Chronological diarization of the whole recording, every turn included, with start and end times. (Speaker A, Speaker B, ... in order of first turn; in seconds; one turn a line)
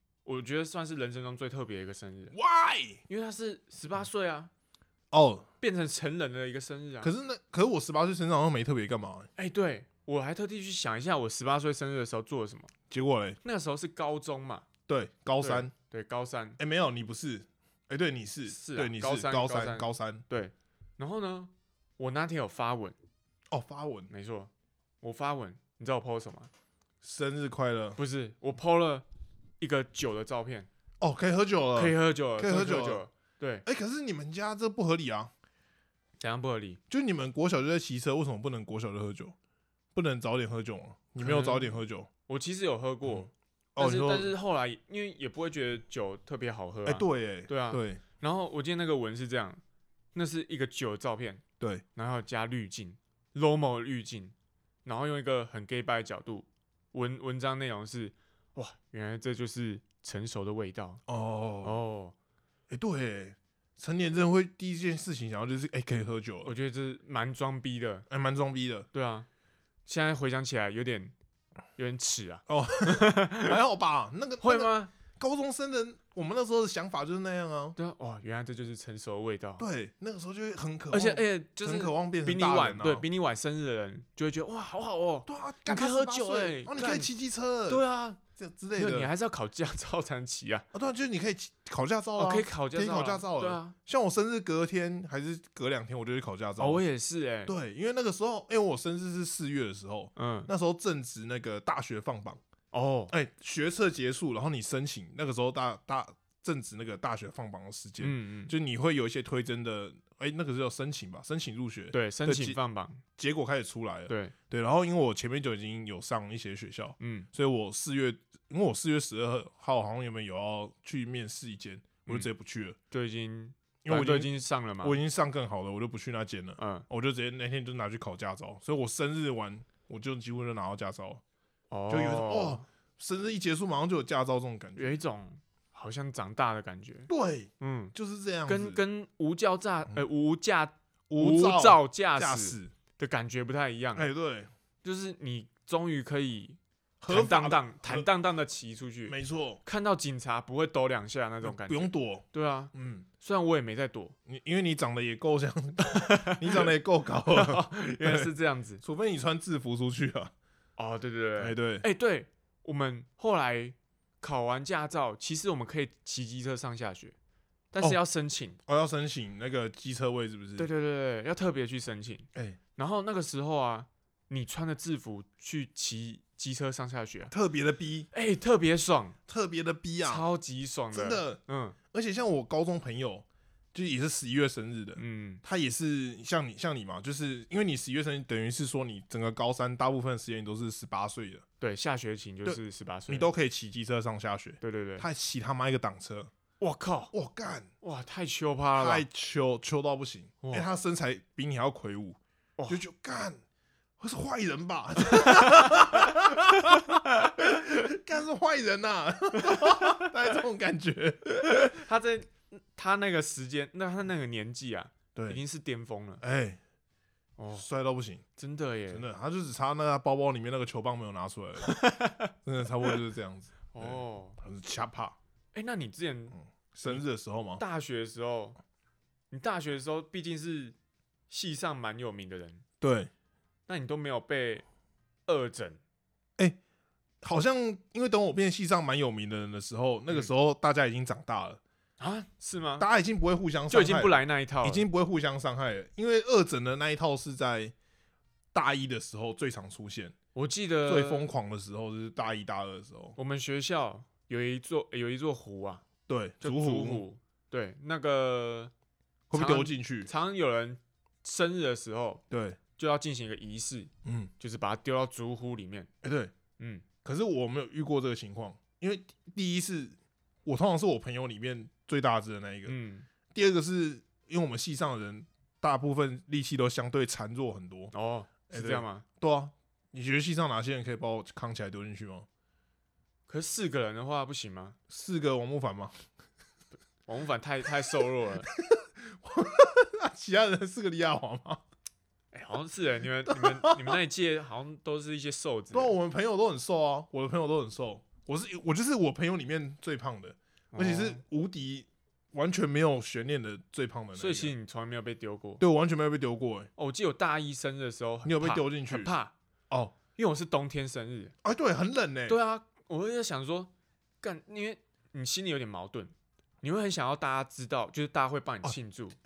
Speaker A: 0.2-2.4
Speaker B: 2.3-3.0
Speaker A: 3.1-4.5
Speaker B: 5.1-5.5
Speaker A: 5.6-7.1
Speaker B: 7.0-9.3
Speaker A: 9.4-12.7
Speaker B: 12.9-13.4
Speaker A: 13.4-14.7
Speaker B: 14.9-15.7
Speaker A: 15.4-16.6
Speaker B: 16.6-20.2
Speaker A: 18.5-23.0
Speaker B: 23.5-24.1
Speaker A: 24.1-24.5
Speaker A: 25.0-26.5
Speaker B: 27.0-28.0
Speaker A: 28.0-29.1
Speaker A: 29.6-30.7
Speaker B: 31.0-33.0
Speaker A: 31.8-33.6
Speaker B: 33.6-35.3
Speaker A: 36.2-36.8
Speaker B: 36.9-39.4
Speaker B: 40.0-42.1
Speaker A: 41.2-49.6
Speaker B: 43.1-44.4
Speaker B: 46.9-48.0
Speaker A: 50.1-51.4
Speaker A: 52.0-54.3
Speaker A: 54.9-61.0
Speaker B: 61.1-61.8
Speaker A: 61.6-62.1
Speaker B: 62.7-66.5
Speaker A: 66.4-68.1
Speaker B: 68.1-68.9
Speaker A: 68.9-69.3
Speaker A: 69.9-71.1
Speaker A: 71.8-73.6
Speaker B: 72.5-77.8
Speaker A: 74.4-74.9
Speaker A: 77.8-79.7
Speaker B: 79.6-83.0
Speaker A: 80.9-87.1
Speaker B: 85.3-87.8
Speaker A: 87.7-88.2
Speaker B: 88.4-89.1
Speaker A: 88.8-90.7
Speaker B: 90.7-96.8
Speaker A: 92.2-93.8
Speaker A: 96.6-97.5
Speaker B: 97.5-102.4
Speaker A: 100.2-100.5
Speaker A: 102.7-103.1
Speaker B: 103.1-112.6
Speaker A: 108.0-108.5
Speaker A: 111.9-113.0
Speaker B: 113.2-122.8
Speaker A: 114.1-114.3
Speaker A: 117.0-117.3
Speaker A: 122.9-125.0
Speaker B: 123.8-131.2
Speaker A: 126.6-126.9
Speaker A: 131.7-132.7
Speaker B: 131.9-135.0
Speaker A: 134.8-137.9
Speaker B: 137.1-138.8
Speaker A: 138.5-144.1
Speaker B: 141.1-142.7
Speaker B: 143.9-144.5
Speaker A: 144.8-154.2
Speaker B: 147.0-148.1
Speaker B: 149.1-149.6
Speaker B: 151.4-153.1
Speaker B: 154.3-158.3
Speaker A: 155.8-156.7
Speaker A: 157.3-158.8
Speaker B: 158.8-160.3
Speaker A: 160.8-167.2
Speaker B: 161.4-161.8
Speaker A: 167.7-168.6
Speaker B: 168.7-170.7
Speaker A: 170.6-177.3
Speaker B: 177.3-178.1
Speaker A: 178.1-179.2
Speaker B: 179.3-180.2
Speaker A: 180.0-181.8
Speaker B: 180.9-181.4
Speaker B: 181.9-191.4
Speaker A: 185.0-185.4
Speaker A: 191.6-193.3
Speaker B: 192.4-196.3
Speaker A: 194.6-195.1
Speaker A: 196.6-197.1
Speaker B: 197.1-197.7
Speaker A: 197.8-199.1
Speaker B: 198.8-203.4
Speaker B: 204.0-211.8
Speaker A: 205.1-207.3
Speaker A: 209.5-210.1
Speaker A: 211.7-216.2
Speaker B: 215.2-215.4
Speaker B: 216.2-216.6
Speaker A: 217.4-217.7
Speaker B: 217.6-218.2
Speaker A: 218.4-219.0
Speaker B: 218.9-221.8
Speaker A: 221.6-222.3
Speaker B: 222.4-225.2
Speaker A: 223.7-224.4
Speaker A: 225.5-227.0
Speaker B: 226.7-227.6
Speaker A: 227.6-228.6
Speaker A: 229.3-230.8
Speaker A: 231.3-232.6
Speaker B: 232.8-233.1
Speaker A: 233.7-234.6
Speaker A: 235.3-235.8
Speaker B: 237.2-241.6
Speaker A: 242.0-242.9
Speaker B: 242.8-247.7
Speaker A: 243.7-244.8
Speaker B: 248.5-250.2
Speaker A: 250.3-251.3
Speaker B: 250.9-253.2
Speaker A: 253.2-255.8
Speaker B: 256.1-257.0
Speaker A: 256.4-258.7
Speaker B: 259.3-260.1
Speaker A: 259.3-262.2
Speaker B: 262.3-262.6
Speaker A: 262.8-265.9
Speaker B: 264.1-264.3
Speaker B: 266.0-266.3
Speaker A: 266.6-266.9
Speaker B: 267.0-272.8
Speaker A: 272.7-273.1
Speaker B: 273.3-277.9
Speaker A: 277.9-279.1
Speaker B: 278.5-282.3
Speaker A: 283.3-284.8
Speaker B: 284.9-286.0
Speaker A: 287.1-288.5
Speaker B: 288.5-291.6
Speaker A: 292.3-296.0
Speaker B: 293.3-294.0
Speaker B: 295.7-304.5
Speaker A: 300.7-301.2
Speaker A: 304.1-305.6
Speaker B: 305.6-306.7
Speaker A: 306.8-309.3
Speaker B: 308.2-309.1
Speaker B: 309.7-310.0
Speaker A: 310.1-311.3
Speaker B: 311.4-312.4
Speaker A: 312.3-319.2